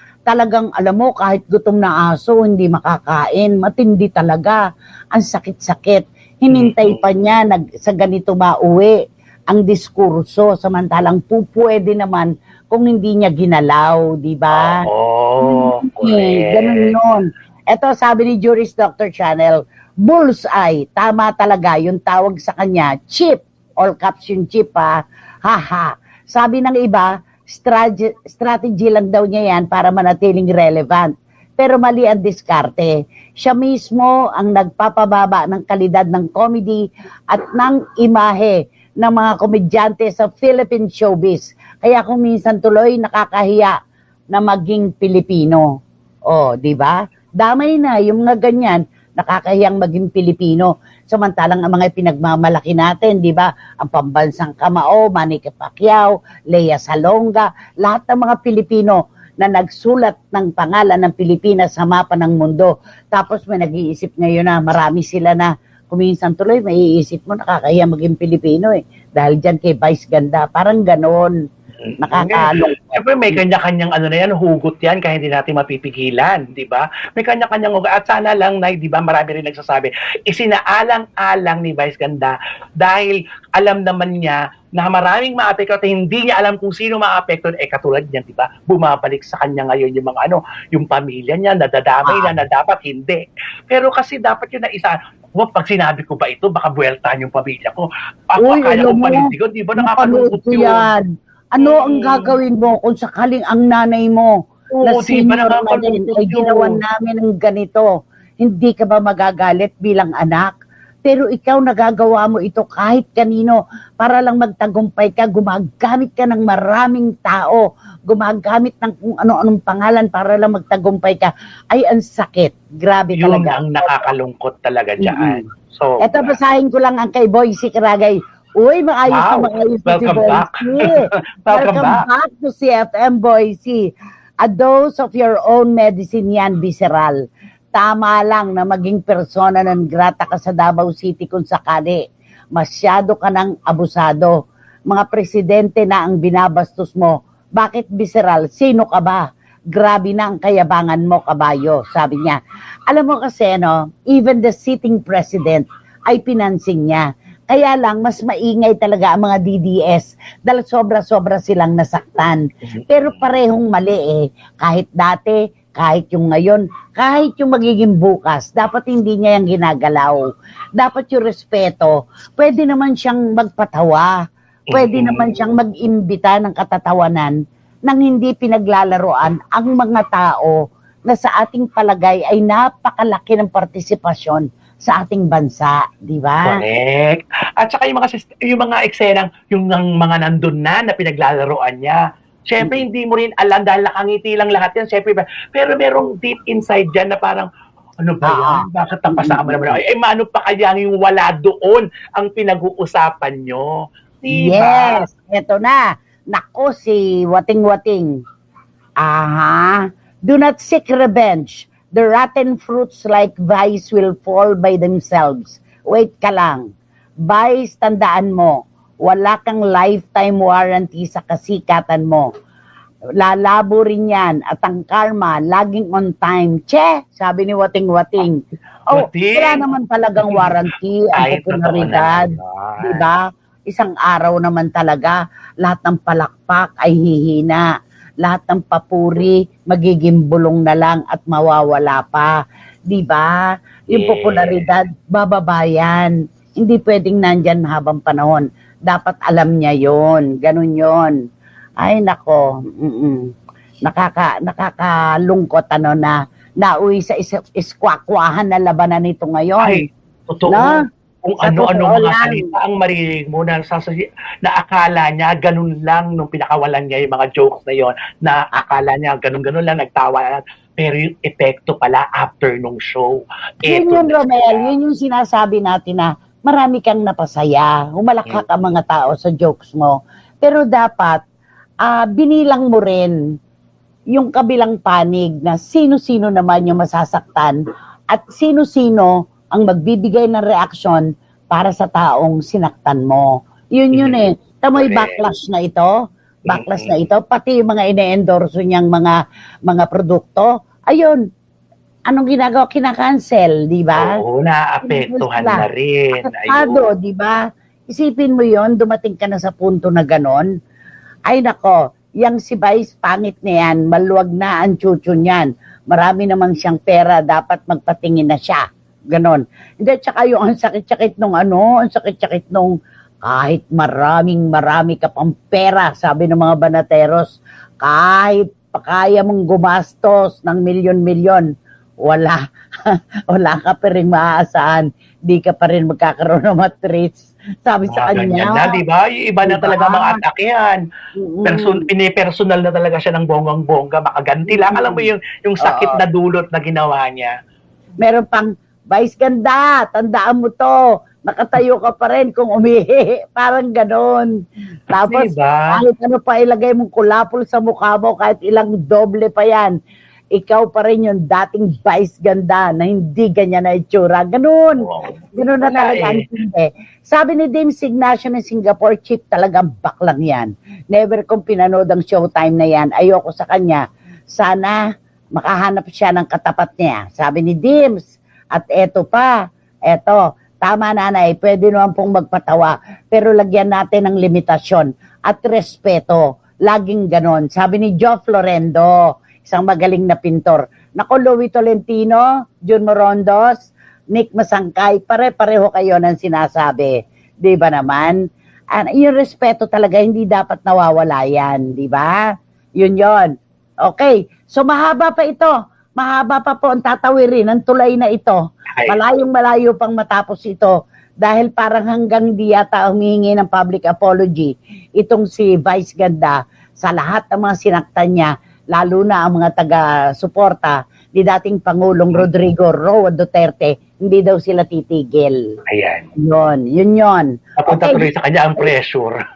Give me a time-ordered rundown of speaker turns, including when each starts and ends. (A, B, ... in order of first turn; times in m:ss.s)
0:00.3-0:04.6 A
0:05.1-0:09.0 A
0:06.5-0:07.0 B
0:09.5-0:14.8 A
0:14.5-0:17.0 B
0:15.4-0:24.9 A
0:25.5-0:43.7 A
0:44.3-0:45.7 A
0:46.3-1:11.3 A
1:11.8-1:40.9 B
1:12.0-1:13.4 A
1:32.0-1:32.4 A
1:38.4-1:41.0 A
1:41.6-1:44.3 A
1:41.6-1:42.4 B
1:44.7-1:46.8 B
1:44.8-1:47.9 A
1:48.4-1:50.5 A
1:51.0-2:04.1 A
2:03.2-2:06.4 B
2:05.0-2:05.4 A
2:06.0-2:11.0 A
2:09.1-2:12.1 B
2:11.5-2:13.8 A
2:14.4-2:17.2 A
2:17.7-2:22.0 A
2:22.6-2:24.4 A
2:24.9-2:29.2 A
2:29.7-2:32.4 A
2:32.9-2:50.2 A
2:42.7-2:43.3 B
2:50.8-2:54.1 A
2:54.7-2:55.4 B
2:54.7-2:57.3 A
2:57.9-3:00.6 A
3:01.1-3:06.6 A
3:06.4-3:17.5 B
3:18.0-3:23.7 B
3:18.2-3:19.8 A
3:24.2-3:25.1 B
3:24.3-3:28.1 A
3:29.0-3:36.6 A
3:37.3-3:42.3 A
3:43.2-3:48.4 A
3:48.9-3:50.6 B
3:49.0-3:52.3 A
3:51.1-3:53.0 B
3:52.8-3:57.6 A
3:58.2-4:02.3 A
4:02.9-4:03.4 A
4:03.9-4:04.7 B
4:03.9-4:11.1 A
4:11.8-4:13.2 A
4:13.8-4:19.8 A
4:19.6-4:34.7 B
4:20.5-4:20.8 A
4:21.4-4:22.5 A
4:33.7-4:41.2 A
4:41.8-4:43.2 A
4:44.1-4:47.6 A
4:48.1-4:55.9 A
4:53.9-4:55.3 B
4:56.4-4:57.0 B
4:56.5-4:59.1 A
4:59.7-5:01.2 A
5:02.1-5:04.1 A
5:03.9-5:06.9 B
5:04.8-5:05.7 A
5:06.2-5:07.4 A
5:07.9-5:10.5 A
5:11.3-5:22.7 A
5:23.2-5:31.4 A
5:32.0-5:38.8 A
5:37.9-5:40.8 B
5:39.4-5:40.2 A
5:41.2-5:41.9 A
5:41.4-5:47.3 B
5:44.5-5:45.1 A
5:45.6-5:46.0 A
5:48.0-5:54.3 A
5:54.9-5:59.7 A
5:55.0-5:55.8 B
6:00.4-6:14.8 A
6:04.8-6:06.3 B
6:15.4-6:19.3 A
6:19.9-6:38.2 A
6:38.7-6:42.2 A
6:42.8-6:43.3 A
6:43.8-7:05.4 A
7:05.7-7:06.1 B
7:06.2-7:08.1 A
7:07.6-7:09.2 B